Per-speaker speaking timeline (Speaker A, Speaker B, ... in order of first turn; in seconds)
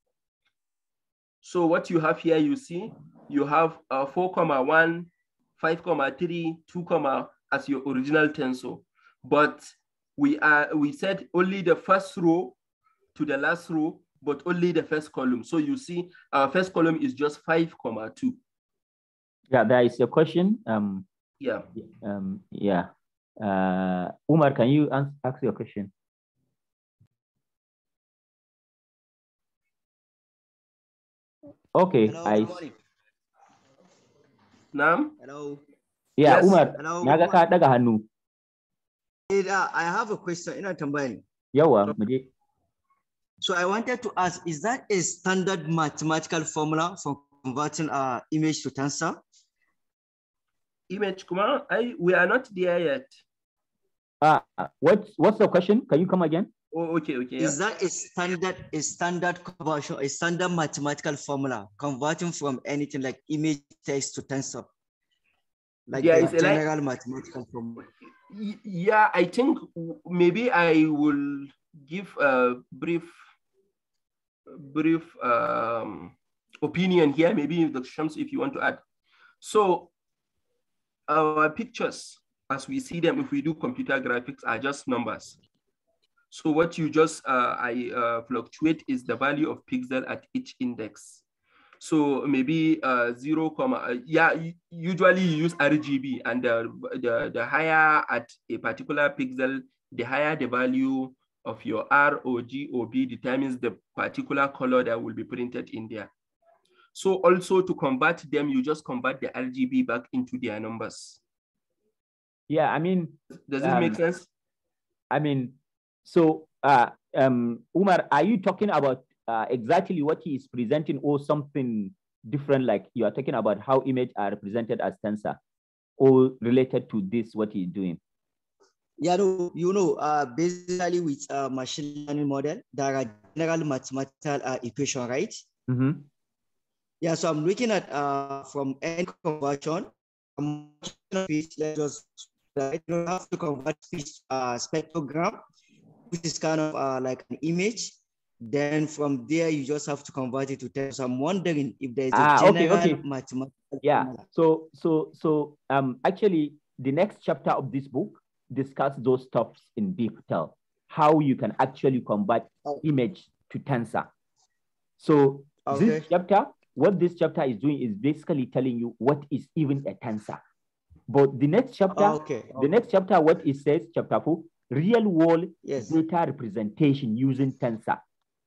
Speaker A: 1.4-12.6, 13.1-18.4, 21.4-21.7, 34.7-35.1, 36.2-36.6, 50.9-53.2, 56.7-57.6, 66.0-66.6, 68.3-73.1, 74.5-78.8, 79.4-79.9, 81.1-85.4, 86.3-91.2, 91.8-106.1, 106.9-111.2, 113.3-114.3
Speaker B: 19.5-21.1, 21.7-25.9, 31.7-32.6, 36.2-38.0, 41.5-42.3, 54.2-56.5, 112.5-114.0, 115.1-125.4, 126.0-128.0, 135.7-136.1, 152.1-153.0, 153.8-164.1, 165.0-170.4, 171.1-178.0
Speaker C: 32.1-32.7, 35.2-35.6, 36.7-37.4, 39.3-41.2, 43.4-49.2, 57.4-64.7, 65.9-67.9, 129.0-135.4, 137.0-145.4, 146.1-154.2, 165.7-166.1, 171.9-172.7, 175.6-175.9